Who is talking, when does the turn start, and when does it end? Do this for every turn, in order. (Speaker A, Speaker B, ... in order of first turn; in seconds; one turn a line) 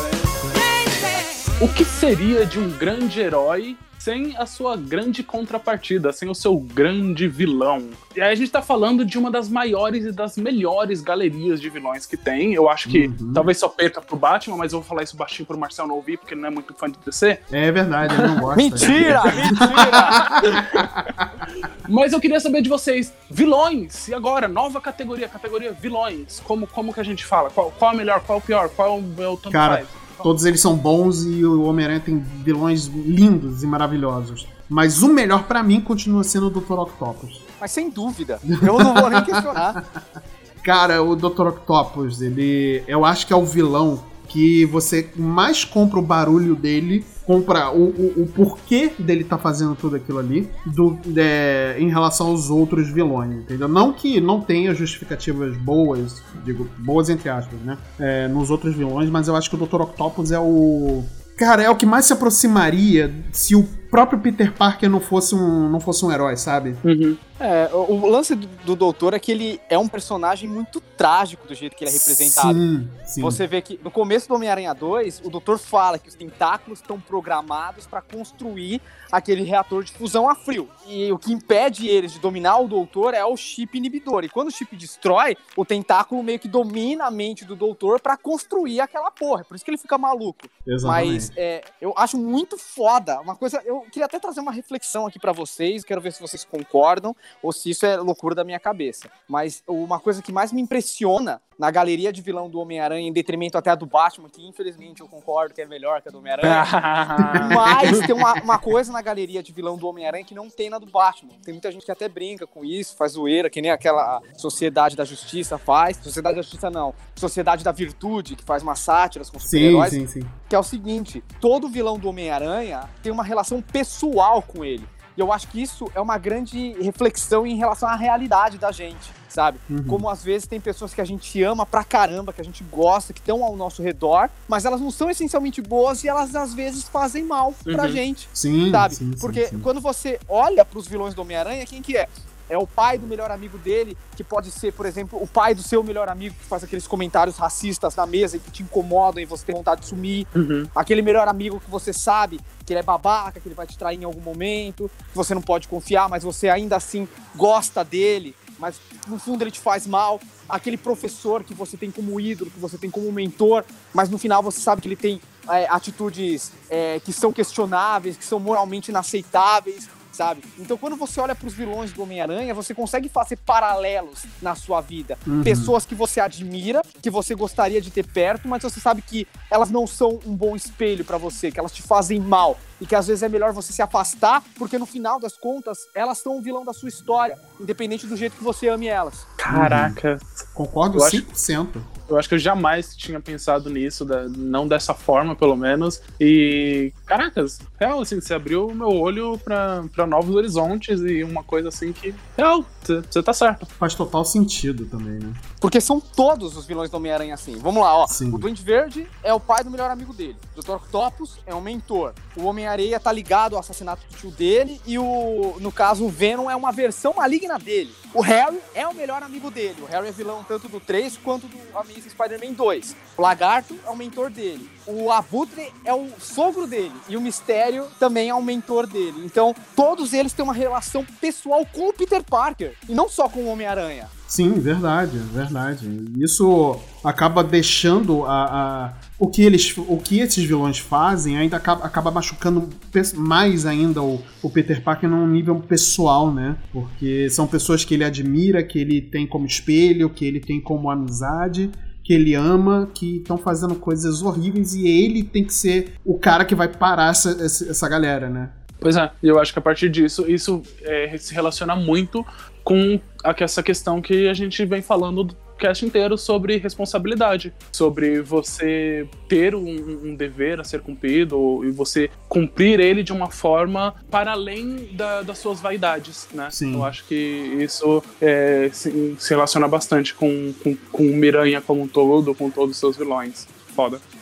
Speaker A: 1.6-17.4
Speaker B: 12.9-13.5
Speaker B: 17.5-21.0
Speaker C: 18.5-20.6
Speaker A: 19.4-20.6
Speaker A: 21.9-30.3
Speaker B: 29.5-37.4
Speaker C: 37.6-39.8
Speaker B: 38.7-40.0
Speaker B: 40.6-66.8
Speaker A: 66.8-67.2
Speaker C: 67.4-72.6
Speaker B: 71.9-73.4
Speaker C: 73.2-106.7
Speaker B: 90.7-91.3
Speaker A: 106.4-108.1
Speaker C: 107.4-189.3
Speaker B: 119.4-120.3
Speaker B: 129.7-130.1
Speaker A: 137.7-138.0
Speaker B: 138.3-139.7
Speaker A: 150.3-150.7
Speaker B: 175.3-175.7
Speaker A: 189.4-190.2
Speaker B: 189.5-190.0
Speaker B: 190.6-191.9
Speaker A: 190.9-191.2
Speaker A: 192.1-203.7
Speaker B: 203.8-205.4
Speaker C: 205.6-234.1
Speaker B: 208.1-208.5
Speaker B: 234.3-258.6
Speaker A: 258.8-284.0
Speaker B: 276.5-276.9